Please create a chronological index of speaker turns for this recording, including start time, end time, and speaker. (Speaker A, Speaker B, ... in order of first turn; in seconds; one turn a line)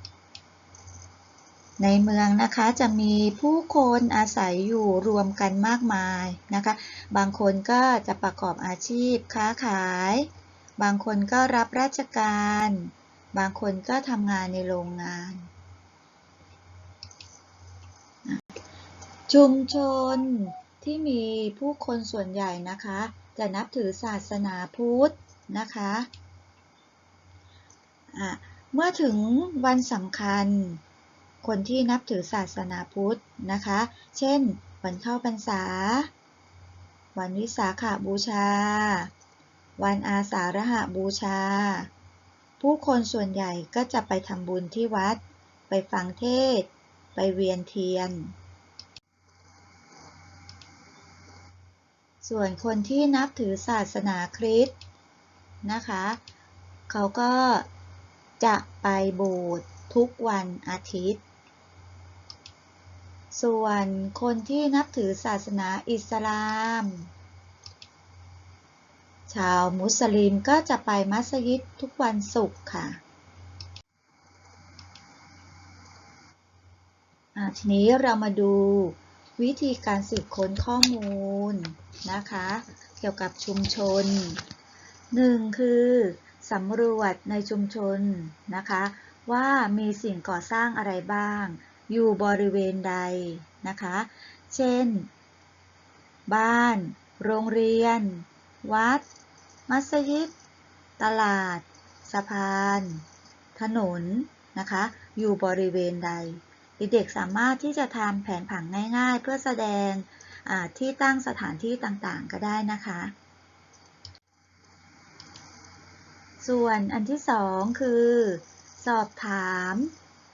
Speaker A: 1.8-15.5
Speaker A: 19.3-26.1
Speaker A: 28.1-30.8
Speaker A: 31.4-36.1
Speaker A: 37.1-39.1
Speaker A: 39.8-41.9
Speaker A: 42.6-48.3
Speaker A: 52.2-54.7
Speaker A: 55.6-56.2
Speaker A: 56.9-57.7
Speaker A: 58.4-61.2
Speaker A: 63.3-67.1
Speaker A: 69.3-73.0
Speaker A: 77.3-84.4
Speaker A: 85.1-95.1
Speaker A: 96.3-99.0
Speaker A: 99.7-100.3
Speaker A: 101.0-103.0
Speaker A: 103.5-113.1
Speaker A: 116.4-119.9